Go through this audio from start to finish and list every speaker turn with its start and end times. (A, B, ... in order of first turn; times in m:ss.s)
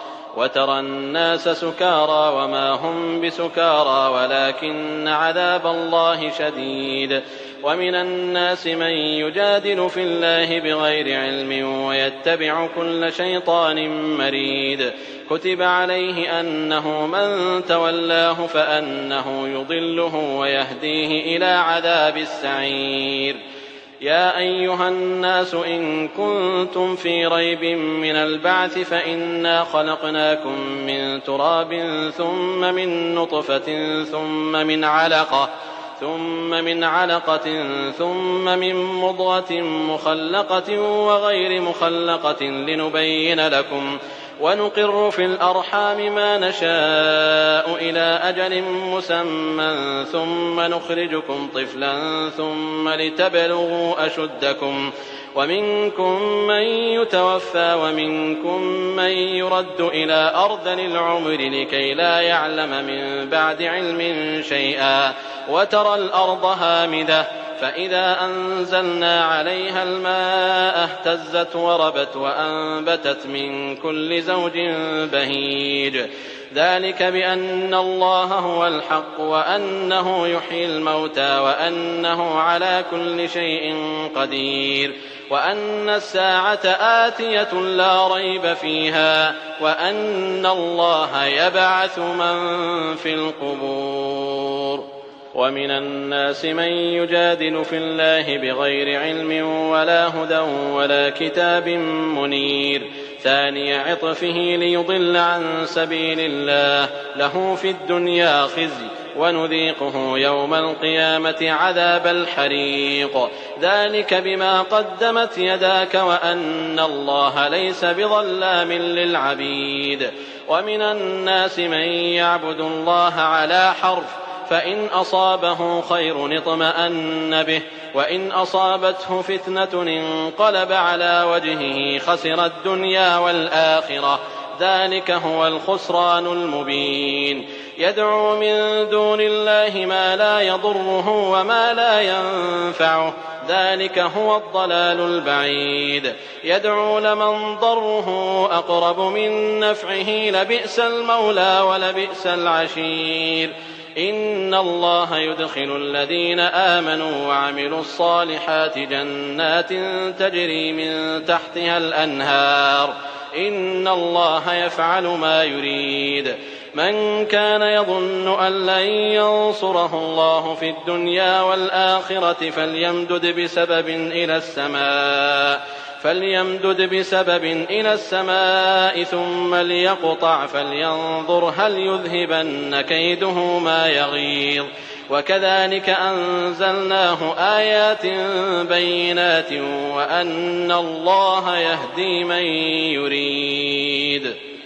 0:00.4-0:23.4 A
0:24.0-3:14.4 A